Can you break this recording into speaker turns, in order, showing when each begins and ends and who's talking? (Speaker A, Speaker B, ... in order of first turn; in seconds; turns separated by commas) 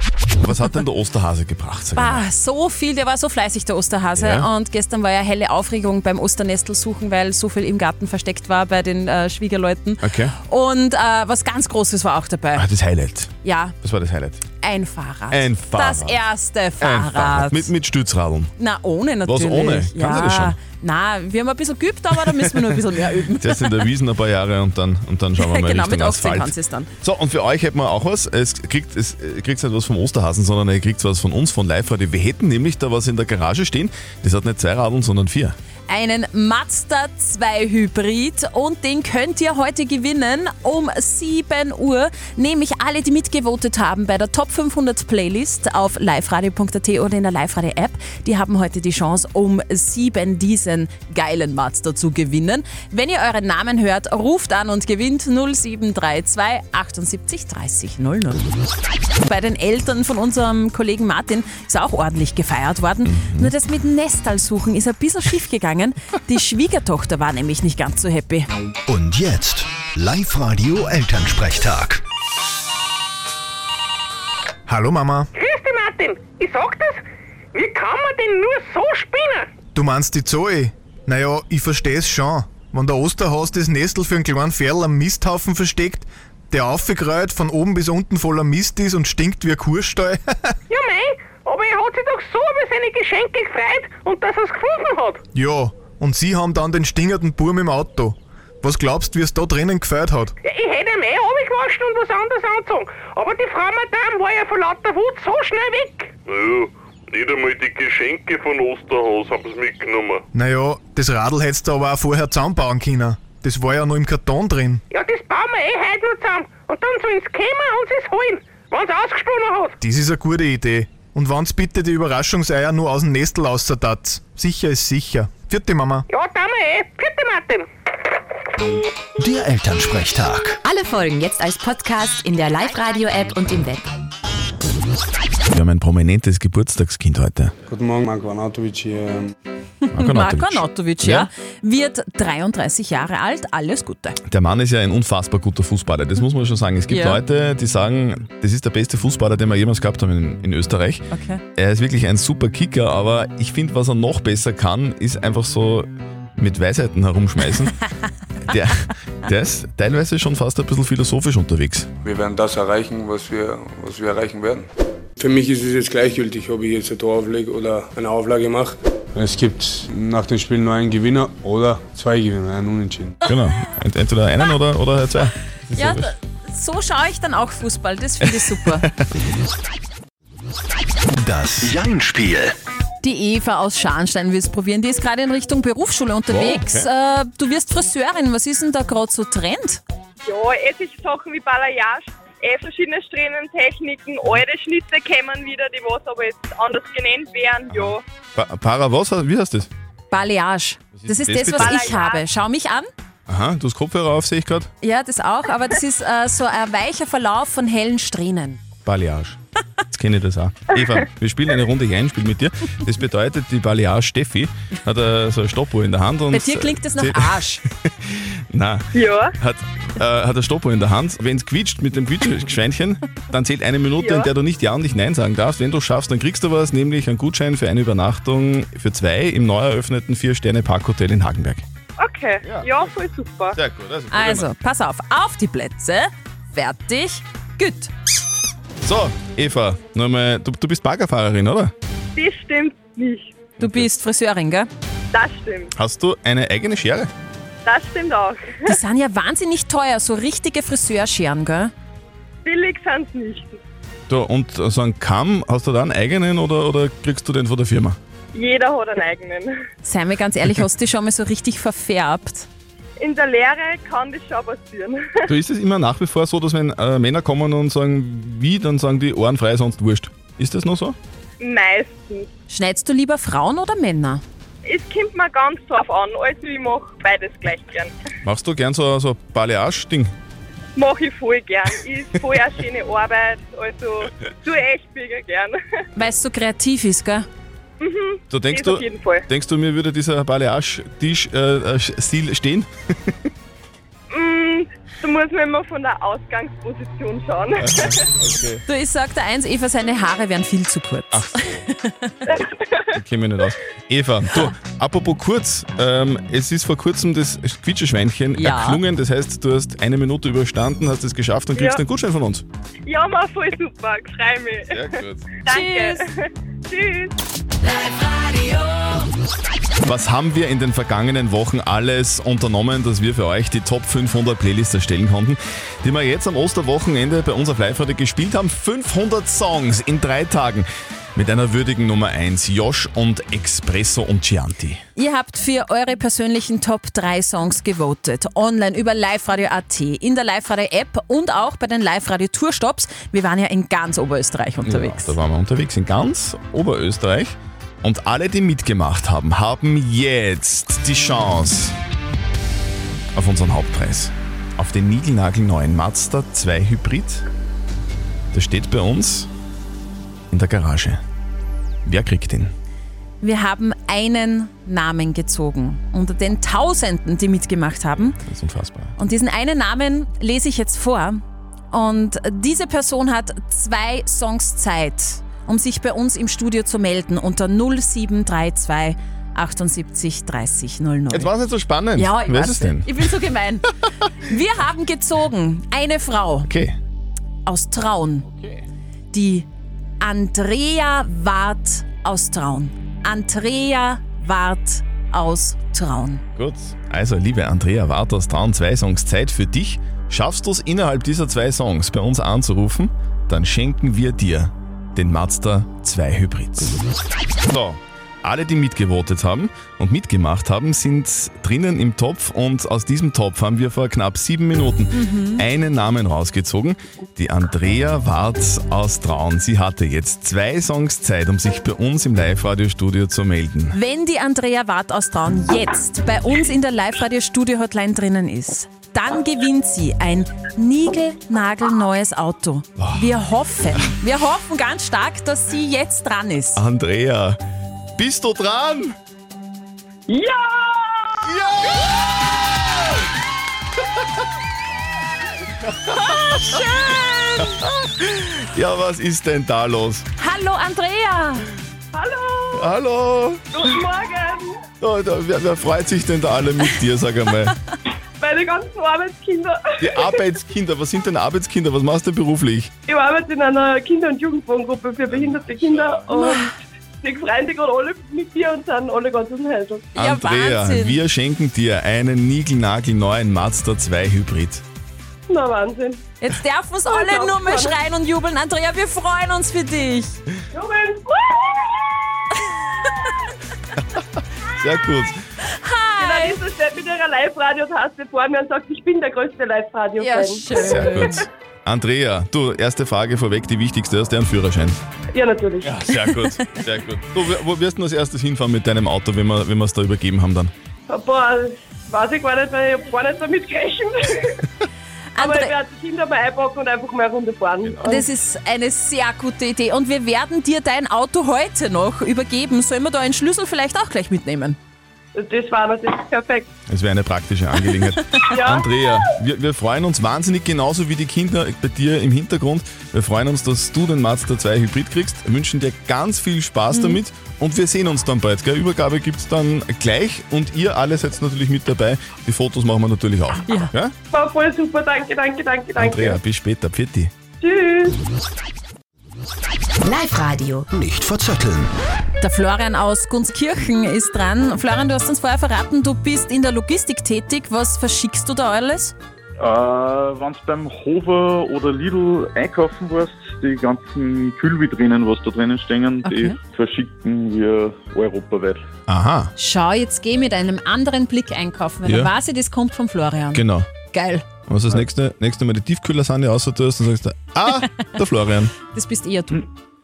Speaker A: 0.4-2.2, Speaker B: 1.9-12.7, Speaker A: 4.2-4.5, Speaker A: 10.0-10.3, Speaker A: 12.5-13.3, Speaker B: 13.4-13.8, Speaker A: 13.8-14.4, Speaker B: 14.6-17.7, Speaker A: 15.3-16.2, Speaker A: 16.8-18.5, Speaker B: 18.6-23.8, Speaker A: 19.2-20.6, Speaker A: 23.4-35.6, Speaker B: 25.4-26.9, Speaker B: 35.9-58.4, Speaker B: 59.2-68.5, Speaker A: 63.0-63.5, Speaker C: 68.9-72.0, Speaker D: 74.7-75.3, Speaker E: 75.4-77.0, Speaker E: 77.5-79.5, Speaker D: 79.8-90.6, Speaker E: 90.7-95.2, Speaker D: 95.3-100.3, Speaker E: 100.4-106.1, Speaker F: 106.3-110.2, Speaker D: 110.3-114.8, Speaker E: 114.9-119.7, Speaker D: 119.8-126.1, Speaker E: 126.1-127.7, Speaker C: 129.2-130.6, Speaker G: 130.7-133.9, Speaker A: 135.5-137.5, Speaker H: 137.7-139.3, Speaker B: 139.9-144.2, Speaker A: 139.9-141.3, Speaker A: 144.3-151.0, Speaker B: 146.9-147.2, Speaker B: 151.1-151.4, Speaker A: 151.6-157.8, Speaker A: 158.4-161.9, Speaker H: 162.1-164.6, Speaker H: 165.2-173.2, Speaker A: 173.3-176.1, Speaker B: 175.7-178.9, Speaker C: 181.1-182.6, Speaker B: 183.0-189.8, Speaker A: 186.3-186.9, Speaker I: 190.2-198.0, Speaker A: 197.7-199.7, Speaker B: 200.1-202.9, Speaker A: 201.0-202.0, Speaker I: 201.6-202.2, Speaker A: 203.3-204.7, Speaker B: 204.8-208.6, Speaker A: 208.8-209.4, Speaker A: 209.9-231.6, Speaker B: 216.3-217.6, Speaker I: 218.9-219.3, Speaker I: 224.0-224.3, Speaker I: 232.0-233.6, Speaker A: 232.4-232.7, Speaker A: 233.5-234.5, Speaker B: 234.1-237.9, Speaker A: 238.8-241.7, Speaker I: 242.2-243.3, Speaker A: 243.6-243.9, Speaker B: 243.6-244.7, Speaker I: 245.1-245.7, Speaker A: 245.8-247.1, Speaker I: 247.7-248.8, Speaker B: 248.7-251.7, Speaker I: 252.4-253.6, Speaker A: 254.1-258.0, Speaker I: 258.3-259.6, Speaker B: 259.8-262.5, Speaker I: 263.0-265.2, Speaker A: 265.3-271.0, Speaker I: 271.4-272.3, Speaker B: 272.5-274.2, Speaker I: 274.6-277.9, Speaker A: 278.2-280.1, Speaker I: 280.8-285.6, Speaker B: 285.9-287.3, Speaker I: 287.8-289.2, Speaker A: 288.3-293.3, Speaker I: 294.1-297.9, Speaker A: 297.6-298.6, Speaker B: 298.7-302.1, Speaker A: 301.1-301.6, Speaker I: 302.3-303.0, Speaker A: 302.9-312.4, Speaker B: 308.3-308.8, Speaker I: 311.6-311.8, Speaker I: 312.9-314.9, Speaker A: 314.7-315.3, Speaker I: 315.4-317.1, Speaker B: 315.5-316.1, Speaker B: 318.0-318.9, Speaker A: 319.8-334.8, Speaker B: 335.0-345.2, Speaker A: 344.6-351.8, Speaker A: 353.1-357.2, Speaker A: 358.3-359.3, Speaker A: 360.3-361.0, Speaker A: 361.9-362.5, Speaker B: 363.2-368.2, Speaker A: 368.0-368.9, Speaker B: 369.0-371.2, Speaker B: 371.7-381.3, Speaker A: 381.1-383.0, Speaker B: 382.0-383.7, Speaker B: 384.2-386.5, Speaker A: 386.5-386.8, Speaker B: 387.5-388.3, Speaker B: 389.1-389.5, Speaker B: 390.0-396.2, Speaker A: 396.4-406.9, Speaker A: 407.5-423.8, Speaker B: 414.9-415.4, Speaker B: 423.7-436.6, Speaker A: 432.8-433.1, Speaker A: 436.6-437.4, Speaker A: 438.0-439.0, Speaker I: 440.1-441.1, Speaker A: 441.2-441.9, Speaker A: 445.9-450.1, Speaker B: 450.2-451.5, Speaker I: 451.9-452.7, Speaker A: 452.6-453.5, Speaker I: 453.5-454.6, Speaker A: 454.8-457.6, Speaker I: 458.2-460.2, Speaker A: 459.8-462.7, Speaker I: 462.9-469.9, Speaker B: 466.1-466.5, Speaker B: 469.9-471.0, Speaker A: 470.0-474.6, Speaker I: 475.3-476.0, Speaker B: 476.2-480.2, Speaker I: 476.9-477.8, Speaker I: 480.5-482.2, Speaker A: 484.5-485.2, Speaker B: 485.4-486.4, Speaker I: 486.0-491.1, Speaker B: 490.0-491.2, Speaker A: 490.5-494.8, Speaker I: 495.1-495.8, Speaker A: 495.6-500.5, Speaker I: 500.9-504.4, Speaker B: 505.1-505.5, Speaker I: 505.2-508.1, Speaker A: 507.7-508.0, Speaker B: 507.8-514.6, Speaker I: 515.1-516.5, Speaker A: 516.7-533.9, Speaker I: 518.3-518.7, Speaker B: 526.7-527.0, Speaker B: 533.5-533.7, Speaker I: 534.1-536.2, Speaker A: 535.8-537.1, Speaker I: 537.4-538.0, Speaker G: 539.8-540.7, Speaker C: 540.7-541.7, Speaker B: 542.2-548.9, Speaker J: 549.4-558.7, Speaker B: 556.0-556.4, Speaker A: 558.9-559.3, Speaker B: 559.4-564.2, Speaker A: 561.9-562.1, Speaker A: 563.3-563.7, Speaker A: 564.5-568.5, Speaker B: 568.7-569.5